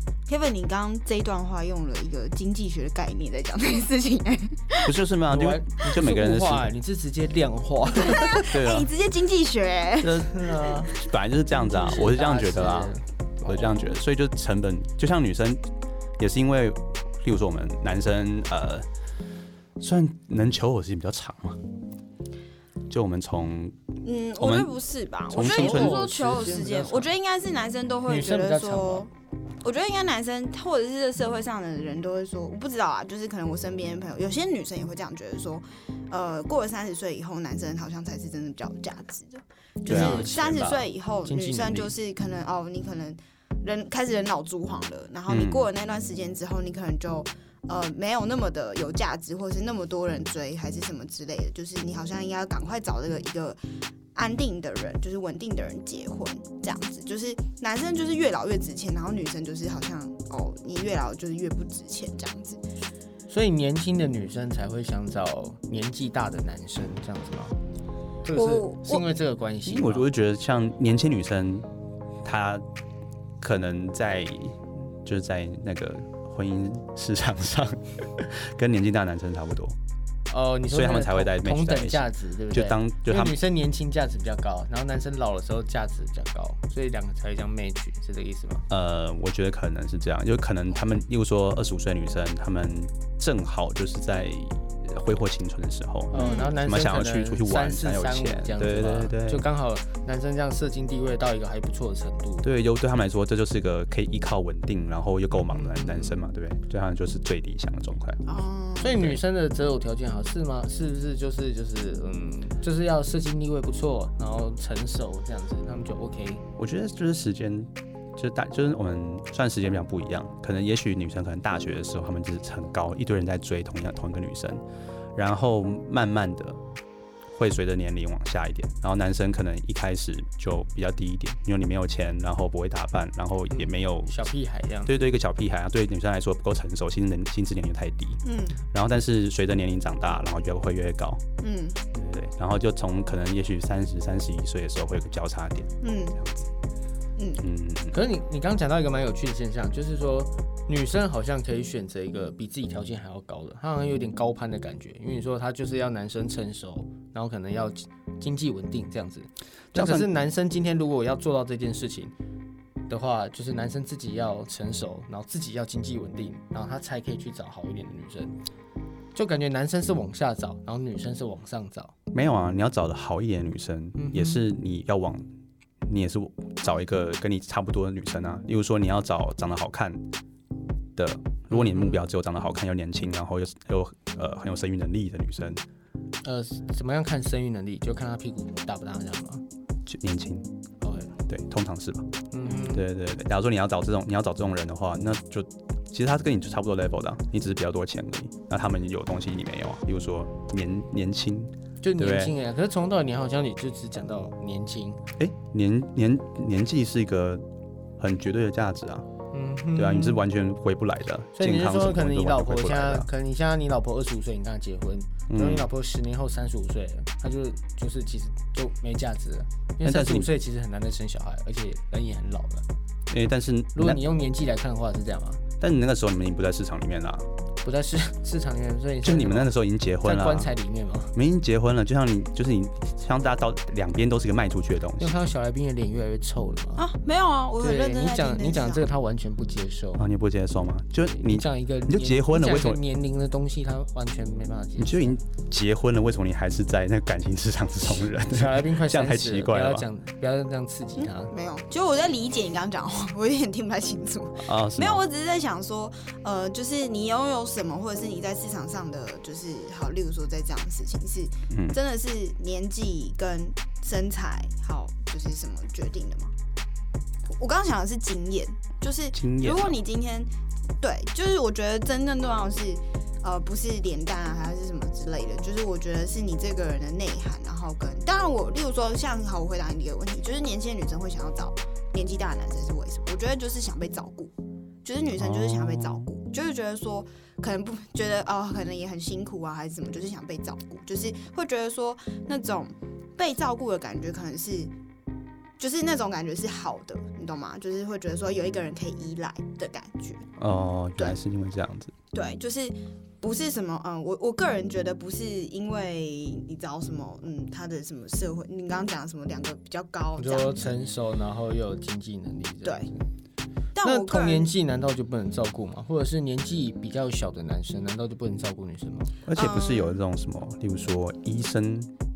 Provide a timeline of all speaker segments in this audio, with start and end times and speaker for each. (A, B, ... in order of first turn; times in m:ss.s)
0:00.3-0:04.9 A
0:04.8-0:06.7 B
0:05.3-0:08.6 C
0:08.0-0:11.1 A
0:08.5-0:08.9 B
0:10.0-0:10.9 C
0:10.9-0:15.6 B
0:11.7-0:13.8 C
0:16.2-0:18.9 B
0:19.8-0:21.6 B
0:22.9-0:23.8 B
0:24.0-0:29.1 A
0:24.4-0:24.7 B
0:25.3-0:26.1 B
0:25.3-0:27.1 C
0:28.1-0:29.0 C
0:29.6-0:53.6 A
0:39.8-0:41.9 C
0:39.9-0:40.3 B
0:45.3-0:45.7 B
0:54.1-1:02.6 A
1:03.3-1:07.6 C
1:08.2-1:10.1 C
1:08.3-1:09.0 A
1:09.6-1:11.7 B
1:12.2-1:12.6 B
1:13.4-1:19.8 B
1:20.3-1:28.7 C
1:20.7-1:23.4 B
1:28.7-1:39.4 B
1:36.1-1:42.5 C
1:36.2-1:36.5 A
1:42.4-1:48.2 B
1:45.3-1:46.2 C
1:48.2-1:49.0 A
1:48.8-1:56.4 C
1:56.6-2:04.6 B
2:05.1-2:06.6 B
2:07.3-2:14.2 B
2:13.5-2:14.9 C
2:14.8-2:18.2 B
2:18.2-2:18.6 A
2:18.7-2:21.2 B
2:21.4-2:21.8 A
2:21.9-2:26.5 B
2:25.8-2:26.2 A
2:27.2-2:27.4 A
2:27.4-2:28.0 B
2:27.9-2:42.1 C
2:39.7-2:40.1 B
2:42.9-2:48.4 C
2:49.1-2:51.9 C
2:52.1-2:55.2 B
2:54.0-2:54.4 C
2:55.8-3:00.0 B
3:01.0-3:05.6 B
3:01.5-3:02.0 C
3:06.2-3:09.4 C
3:09.8-3:10.5 B
3:10.8-3:11.1 C
3:11.3-3:22.3 B
3:12.3-3:12.8 C
3:21.8-3:25.0 C
3:25.2-3:27.4 B
3:28.0-3:29.1 B
3:29.3-3:30.2 C
3:29.7-3:33.1 B
3:31.3-3:42.6 C
3:35.3-3:35.7 B
3:39.8-3:40.3 B
3:43.1-3:44.0 B
3:43.7-3:45.4 C
3:45.6-3:47.3 B
3:47.6-3:51.1 C
3:49.0-3:50.5 B
3:51.1-3:55.2 B
3:55.0-3:56.8 C
3:56.8-3:58.9 A
3:57.6-4:00.0 C
4:00.0-4:02.8 B
4:01.1-4:05.2 C
4:04.8-4:09.8 B
4:08.1-4:11.3 C
4:11.0-4:26.3 A
4:14.4-4:15.0 B
4:21.5-4:21.8 B
4:27.2-4:54.7 A
4:29.1-4:29.8 B
4:45.2-4:46.1 B
4:55.6-5:00.3 A
5:00.4-5:01.9 B
5:02.1-5:10.6 A
5:10.2-5:13.1 C
5:13.7-5:14.5 A
5:13.8-5:19.1 C
5:19.2-5:21.9 B
5:19.3-5:20.0 A